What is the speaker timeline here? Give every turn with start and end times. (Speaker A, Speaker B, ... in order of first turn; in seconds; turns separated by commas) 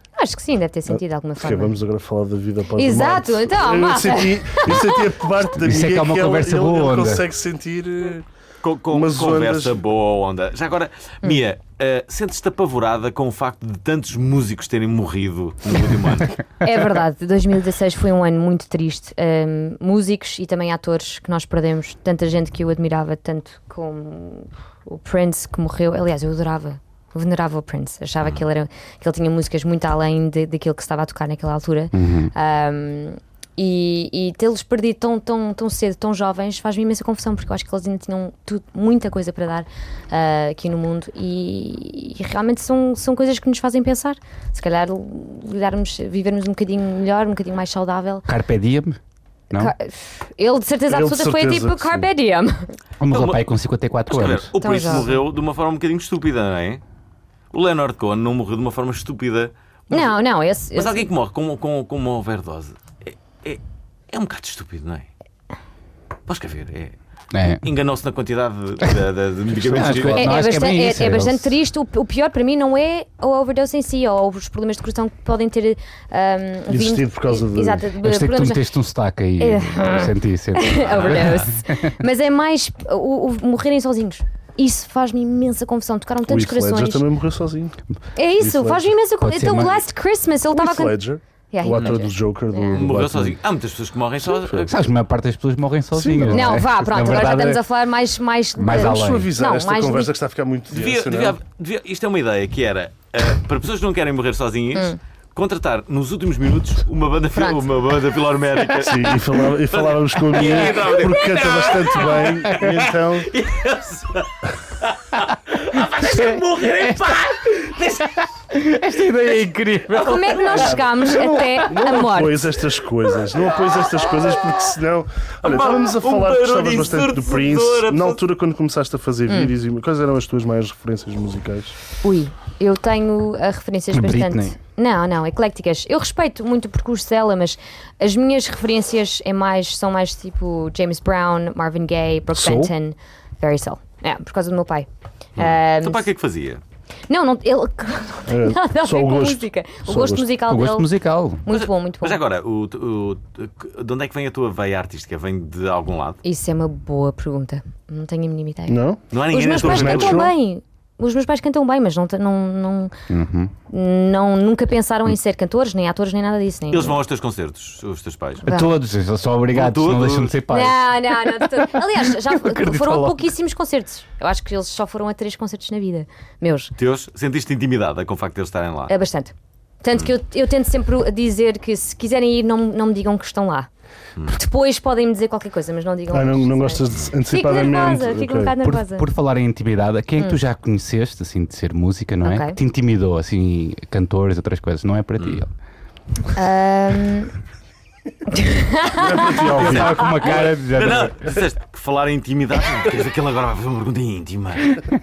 Speaker A: 0.2-1.8, Speaker B: 0.9-8.3, Speaker A: 2.8-5.0, Speaker C: 5.6-7.2, Speaker D: 8.6-16.4, Speaker B: 8.9-9.8, Speaker A: 16.6-48.3, Speaker C: 31.9-32.3, Speaker C: 48.3-49.0, Speaker A: 49.5-52.7, Speaker B: 50.9-52.1, Speaker C: 53.0-54.5, Speaker D: 53.1-53.4, Speaker D: 54.1-56.8, Speaker A: 54.6-55.1, Speaker D: 57.5-60.1, Speaker A: 59.9-61.1, Speaker D: 60.8-65.1, Speaker D: 66.3-66.9, Speaker C: 67.3-67.6, Speaker D: 67.6-70.4, Speaker B: 69.7-70.0, Speaker C: 69.7-71.5, Speaker A: 70.2-78.6, Speaker B: 76.7-77.9, Speaker C: 78.0-82.0, Speaker A: 79.4-87.0, Speaker D: 80.9-81.3, Speaker B: 86.3-87.8, Speaker A: 88.2-91.0, Speaker B: 88.4-88.9, Speaker C: 89.2-89.8, Speaker B: 90.5-93.4, Speaker A: 91.5-92.8, Speaker D: 92.7-94.7, Speaker C: 94.7-97.6, Speaker B: 96.0-96.6, Speaker A: 96.3-100.1, Speaker C: 98.6-99.3, Speaker B: 98.7-101.4, Speaker D: 100.7-118.1, Speaker A: 107.4-107.6, Speaker B: 108.8-113.3, Speaker C: 115.8-120.8, Speaker A: 120.0-122.5, Speaker B: 120.6-131.8, Speaker D: 125.4-128.2, Speaker A: 129.3-129.5, Speaker A: 132.0-146.1, Speaker C: 133.9-134.6, Speaker B: 142.3-142.7, Speaker D: 145.4-146.6, Speaker A: 147.1-150.9, Speaker B: 148.3-150.3, Speaker C: 150.5-151.4, Speaker A: 151.4-152.2, Speaker D: 151.5-156.2, Speaker A: 156.2-162.9, Speaker B: 158.7-160.3, Speaker D: 159.1-160.2, Speaker C: 163.1-163.5, Speaker A: 163.7-167.0, Speaker D: 166.7-168.4, Speaker C: 168.4-170.9, Speaker D: 169.5-170.4, Speaker A: 170.5-176.7, Speaker C: 172.4-173.2, Speaker D: 176.8-178.9, Speaker A: 178.9-183.7, Speaker A: 184.3-189.1, Speaker B: 186.1-188.6, Speaker C: 188.6-195.5, Speaker A: 192.2-192.6, Speaker A: 196.3-197.3, Speaker A: 198.3-199.4, Speaker B: 199.0-200.1, Speaker C: 199.5-201.2, Speaker D: 199.6-204.8